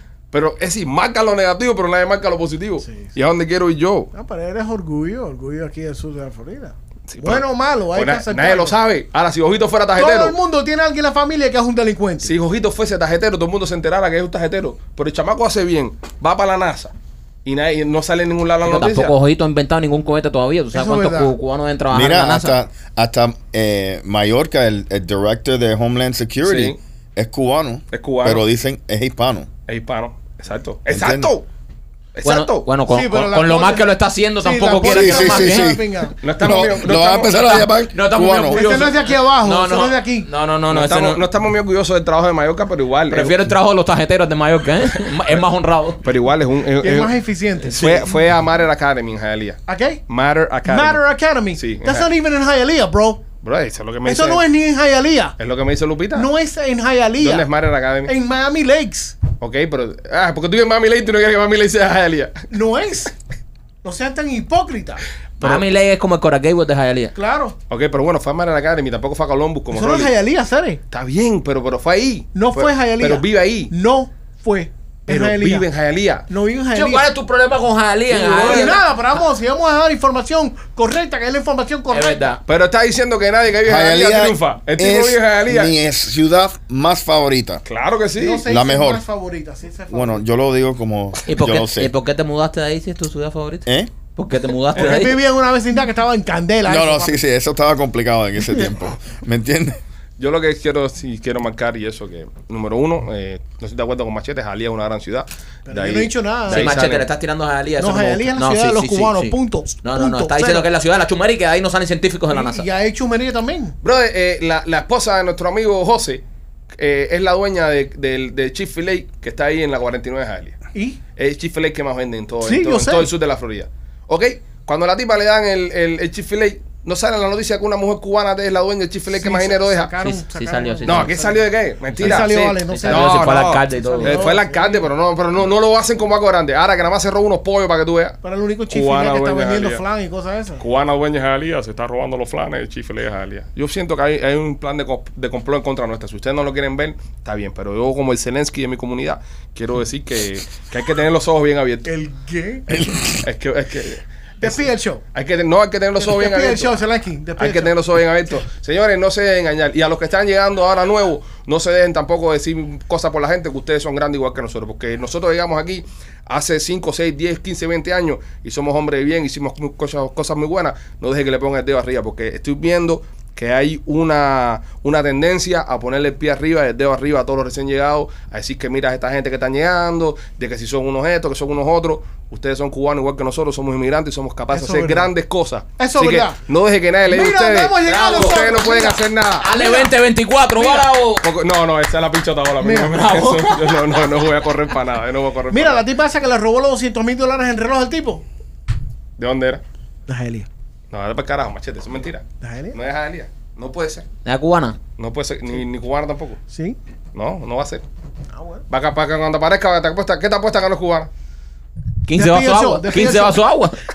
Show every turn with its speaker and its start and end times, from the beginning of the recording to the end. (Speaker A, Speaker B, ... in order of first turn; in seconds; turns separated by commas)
Speaker A: 0.3-4.1, Speaker B: 2.8-3.1, Speaker B: 4.1-8.8, Speaker A: 7.1-10.4, Speaker B: 10.0-12.3, Speaker A: 12.2-16.9, Speaker A: 17.4-19.1, Speaker C: 18.6-22.6, Speaker B: 20.7-21.4, Speaker D: 21.9-29.5, Speaker A: 26.4-26.8, Speaker A: 27.9-28.4, Speaker A: 29.7-31.4, Speaker D: 30.9-31.3, Speaker A: 32.1-32.7, Speaker C: 32.2-35.8, Speaker B: 32.9-33.9, Speaker B: 34.4-36.2, Speaker D: 34.8-38.7, Speaker A: 36.2-37.4, Speaker C: 37.1-41.2, Speaker B: 38.4-40.3, Speaker A: 40.7-43.4, Speaker C: 43.1-46.0, Speaker A: 46.0-51.0, Speaker B: 46.8-48.2, Speaker B: 49.7-50.0, Speaker B: 50.7-53.2, Speaker A: 51.6-52.1, Speaker A: 53.4-54.4, Speaker B: 54.0-55.4, Speaker A: 55.4-56.3, Speaker B: 56.1-57.5, Speaker A: 57.2-58.1, Speaker B: 58.0-59.2, Speaker A: 59.4-62.5, Speaker B: 62.5-63.1, Speaker B: 63.8-65.0, Speaker A: 65.4-65.7, Speaker C: 65.4-67.1, Speaker B: 67.2-67.5, Speaker A: 67.7-70.1, Speaker B: 69.7-70.8, Speaker A: 70.9-73.7, Speaker B: 72.3-75.7, Speaker A: 75.1-76.3, Speaker B: 76.3-77.1, Speaker C: 76.7-78.8, Speaker B: 78.1-82.3, Speaker A: 78.2-78.8, Speaker C: 81.9-82.4, Speaker A: 82.5-85.7, Speaker D: 83.7-87.6, Speaker A: 87.7-88.5, Speaker B: 88.2-90.2, Speaker D: 88.5-89.0, Speaker D: 89.9-91.9, Speaker C: 91.3-95.2, Speaker D: 93.7-93.9, Speaker B: 94.7-97.2, Speaker A: 94.8-95.1, Speaker D: 96.6-99.8, Speaker A: 100.2-107.1, Speaker B: 105.7-106.8, Speaker C: 106.5-112.7, Speaker B: 107.8-110.7, Speaker B: 112.3-113.8, Speaker A: 113.8-116.2, Speaker A: 116.8-120.6, Speaker B: 120.8-121.0, Speaker A: 121.2-130.0, Speaker B: 122.4-123.1, Speaker B: 129.1-131.4, Speaker C: 130.0-131.2, Speaker A: 130.8-139.8, Speaker C: 131.9-134.3, Speaker B: 132.0-134.9, Speaker B: 138.2-140.6, Speaker A: 140.6-151.9, Speaker B: 151.9-152.8, Speaker D: 152.7-153.2, Speaker A: 153.2-156.8, Speaker B: 154.4-155.0, Speaker B: 156.0-157.8, Speaker A: 157.4-189.5, Speaker B: 184.5-185.1, Speaker B: 185.8-186.4, Speaker B: 187.1-189.9, Speaker C: 187.8-188.6, Speaker C: 189.4-191.3, Speaker A: 190.6-195.8, Speaker B: 192.6-193.0, Speaker C: 192.8-193.8, Speaker B: 195.5-198.2, Speaker A: 199.2-199.6, Speaker B: 200.1-200.5, Speaker A: 200.9-204.1, Speaker B: 202.4-202.8, Speaker C: 204.2-204.8, Speaker A: 205.0-206.4, Speaker B: 206.5-206.8, Speaker A: 207.2-207.8, Speaker B: 208.3-208.6, Speaker A: 208.7-211.1, Speaker C: 212.1-213.8, Speaker B: 212.2-213.4